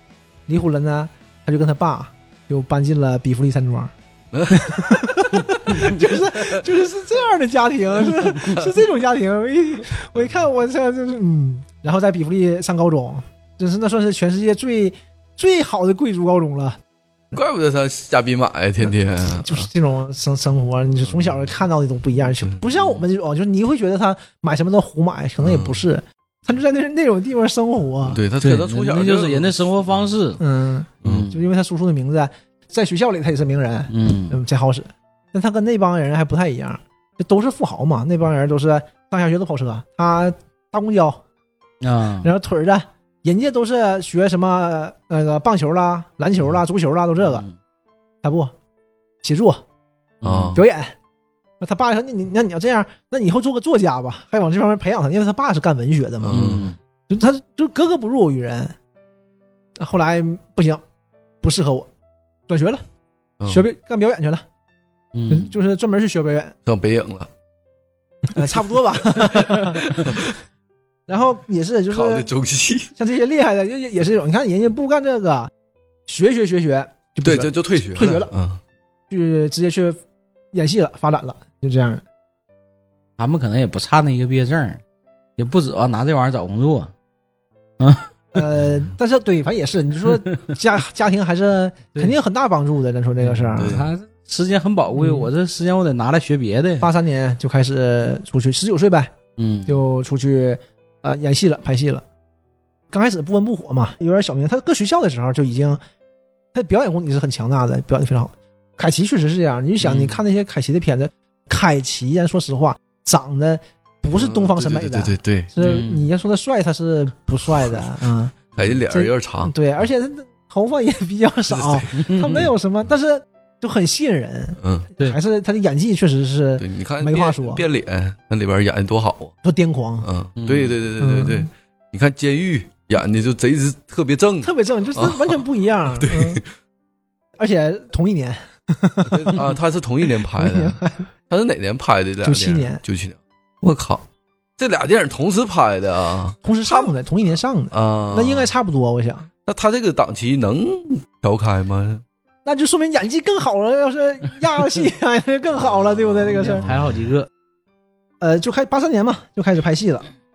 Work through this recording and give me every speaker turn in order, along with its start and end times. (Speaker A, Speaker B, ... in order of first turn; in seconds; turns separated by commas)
Speaker A: 0.5-3.9, Speaker B: 4.3-6.6, Speaker A: 4.5-16.8, Speaker B: 8.2-8.7, Speaker B: 17.3-19.7, Speaker A: 19.3-28.2, Speaker B: 22.4-23.0, Speaker B: 25.4-25.8, Speaker B: 28.1-29.6, Speaker C: 28.4-30.4, Speaker A: 30.4-41.2, Speaker B: 31.0-31.3, Speaker C: 31.0-31.4, Speaker C: 33.9-34.4, Speaker C: 41.8-42.3, Speaker A: 42.2-47.4, Speaker A: 48.2-48.5, Speaker A: 49.2-49.6, Speaker C: 50.2-50.6, Speaker B: 50.2-50.6, Speaker A: 50.5-50.9, Speaker A: 51.6-58.8, Speaker B: 56.2-56.7, Speaker C: 56.3-56.8, Speaker A: 59.8-60.8, Speaker A: 61.4-61.9, Speaker A: 62.5-62.8, Speaker A: 63.5-64.4, Speaker C: 65.1-65.5, Speaker A: 65.3-66.5, Speaker B: 66.7-67.3, Speaker A: 68.3-70.3, Speaker B: 68.9-70.3, Speaker A: 71.1-72.3, Speaker B: 71.9-72.9, Speaker A: 73.0-75.5, Speaker A: 76.1-78.3, Speaker B: 77.2-78.6, Speaker A: 79.1-80.0, Speaker A: 80.5-82.0, Speaker C: 83.2-84.8, Speaker C: 85.4-86.9, Speaker C: 87.8-88.1, Speaker A: 88.3-93.8, Speaker C: 93.2-96.9, Speaker B: 93.6-93.9, Speaker A: 95.0-95.3, Speaker A: 96.8-99.1, Speaker C: 99.4-99.8, Speaker A: 99.7-102.0, Speaker A: 102.9-105.8, Speaker A: 106.5-118.4, Speaker C: 109.8-110.2, Speaker B: 114.1-115.5, Speaker C: 115.6-116.1, Speaker B: 118.6-119.5, Speaker A: 118.9-127.7, Speaker B: 121.5-121.9, Speaker C: 121.9-122.4, Speaker B: 124.6-124.9, Speaker B: 126.6-129.3, Speaker A: 129.4-130.1, Speaker B: 130.0-135.4, Speaker C: 130.4-130.8, Speaker A: 131.0-131.5, Speaker A: 134.4-136.4, Speaker B: 136.0-136.5, Speaker A: 137.4-139.5, Speaker B: 139.1-144.1, Speaker A: 140.3-141.1, Speaker A: 142.2-142.8, Speaker B: 144.6-146.9, Speaker A: 146.4-149.3, Speaker B: 147.7-148.5, Speaker B: 149.4-152.0, Speaker A: 152.4-156.7, Speaker B: 155.7-156.7, Speaker C: 156.2-157.3, Speaker A: 158.2-160.1